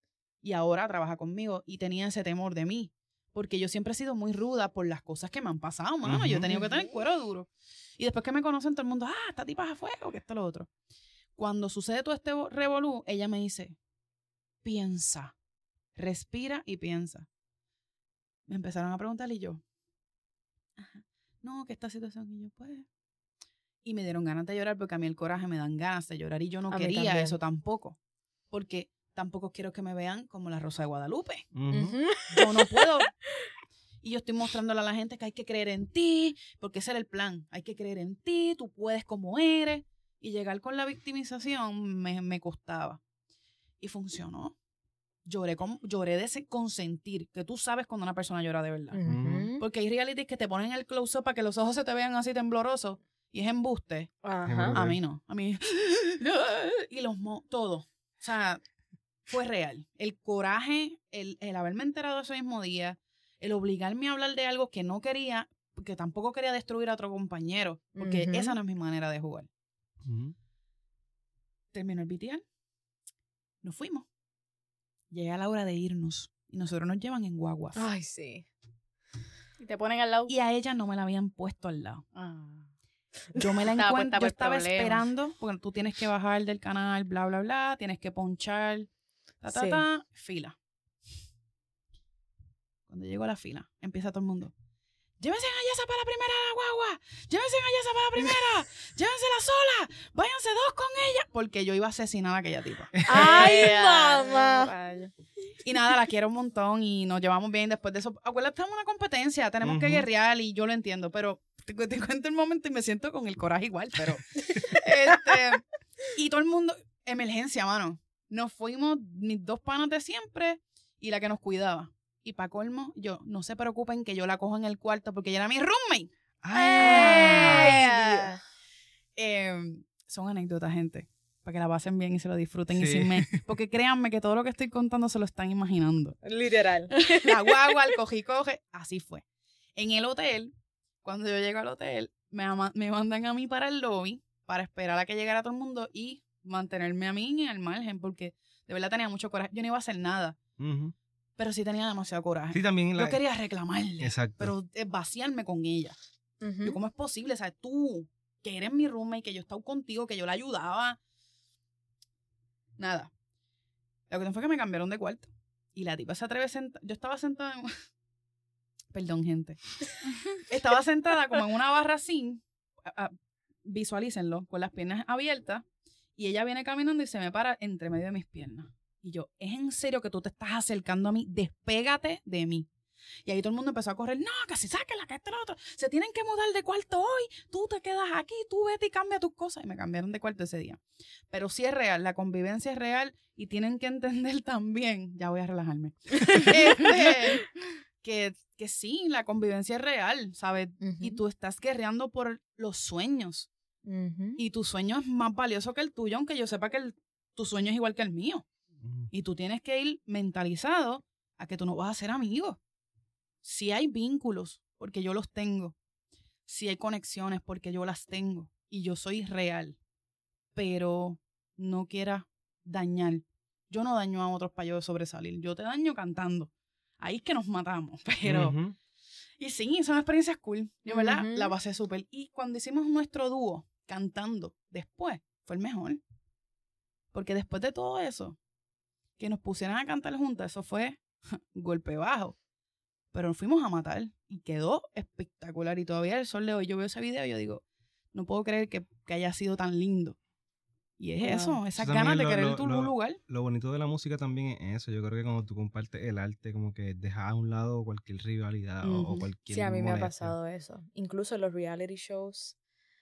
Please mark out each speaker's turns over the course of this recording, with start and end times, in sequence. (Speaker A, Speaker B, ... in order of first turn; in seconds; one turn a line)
Speaker A: 0.4-10.7
Speaker B: 6.0-6.5
Speaker C: 6.5-6.8
Speaker A: 11.3-13.8
Speaker A: 14.6-15.3
Speaker A: 15.9-17.3
Speaker A: 18.5-19.6
Speaker A: 20.8-22.9
Speaker A: 23.8-28.0
Speaker C: 26.7-27.4
Speaker A: 28.5-31.5
Speaker B: 31.5-32.0
Speaker C: 31.7-32.9
Speaker A: 32.3-33.1
Speaker A: 34.0-43.0
Speaker A: 43.8-44.5
Speaker A: 45.2-49.0
Speaker C: 48.9-49.6
Speaker B: 49.0-49.5
Speaker A: 49.6-54.1
Speaker C: 54.2-54.8
Speaker B: 54.5-55.0
Speaker A: 54.6-58.6
Speaker A: 59.3-69.5
Speaker C: 68.0-68.5
Speaker B: 70.0-70.3
Speaker A: 71.7-72.4
Speaker A: 73.6-74.1
Speaker A: 75.1-77.8
Speaker C: 77.7-78.5
Speaker D: 79.6-80.3
Speaker A: 80.3-82.0
Speaker D: 82.1-82.7
Speaker A: 83.3-88.9
Speaker D: 83.7-85.1
Speaker A: 89.4-90.5
Speaker C: 89.5-89.8
Speaker A: 92.9-94.5
Speaker A: 95.2-103.7
Speaker C: 103.0-104.7
Speaker D: 103.1-105.1
Speaker A: 105.6-128.4
Speaker B: 109.6-110.1
Speaker B: 126.4-127.8
Speaker D: 126.8-127.8
Speaker C: 126.8-128.4
Speaker A: 129.2-136.2
Speaker B: 132.7-133.2
Speaker C: 136.2-137.6
Speaker A: 137.1-139.2
Speaker A: 139.8-150.4
Speaker B: 150.6-150.9
Speaker A: 151.4-155.9
Speaker B: 152.5-153.2
Speaker B: 154.0-154.5
Speaker C: 156.4-156.8
Speaker A: 156.6-161.0
Speaker A: 162.8-163.1
Speaker A: 164.1-167.8
Speaker A: 168.9-169.8
Speaker A: 170.3-175.6
Speaker A: 176.2-182.7
Speaker A: 183.2-197.5
Speaker C: 196.2-196.6
Speaker A: 198.0-203.5
Speaker C: 200.8-201.2
Speaker C: 203.8-204.4
Speaker A: 204.3-208.4
Speaker B: 208.8-209.1
Speaker A: 209.1-212.6
Speaker A: 213.4-215.8
Speaker A: 216.4-219.8
Speaker A: 220.5-228.6
Speaker B: 228.2-228.8
Speaker A: 229.4-236.0
Speaker C: 230.9-231.5
Speaker A: 237.1-238.4
Speaker A: 239.2-242.4
Speaker A: 243.1-250.2
Speaker A: 251.0-253.2
Speaker C: 251.2-251.6
Speaker B: 251.8-260.3
Speaker A: 258.8-259.2
Speaker C: 259.5-262.6